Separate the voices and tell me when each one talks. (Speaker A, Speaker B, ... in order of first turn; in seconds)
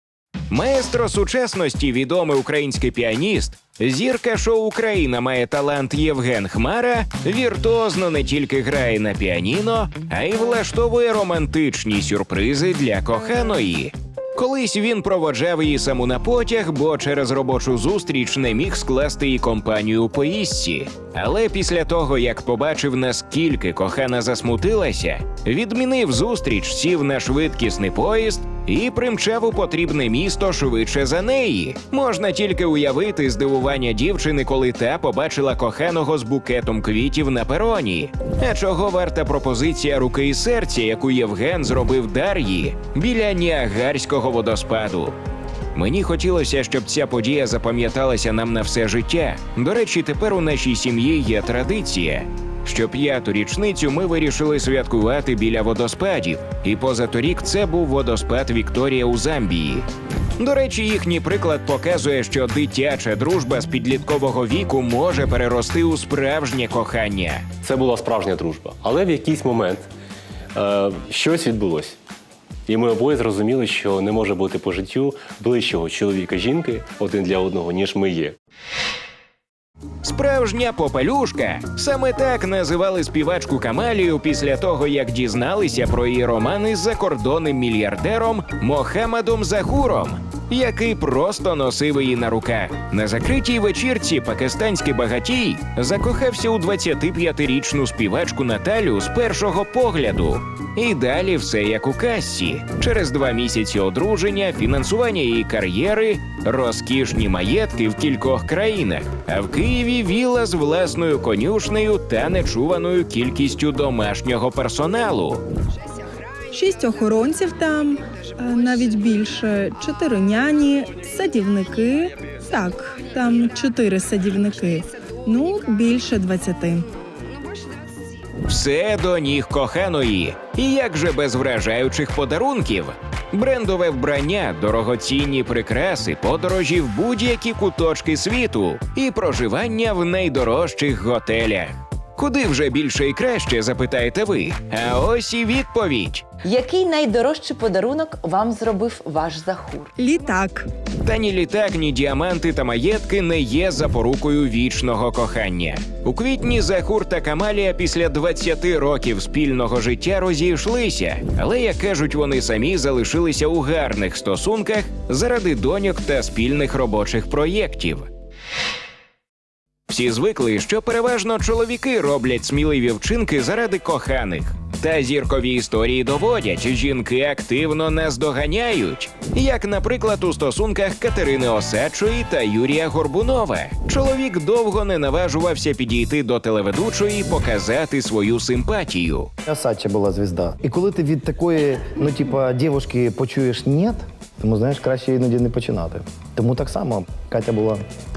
Speaker A: 0.5-45.2, 45.7-59.9, 60.4-67.5, 80.0-115.4, 128.4-146.4, 151.0-168.1, 169.9-189.3
Speaker B: 67.6-69.8, 70.5-72.0, 72.7-78.4
Speaker C: 116.5-126.8, 150.0-150.7
Speaker D: 146.4-149.9
Speaker E: 189.5-197.8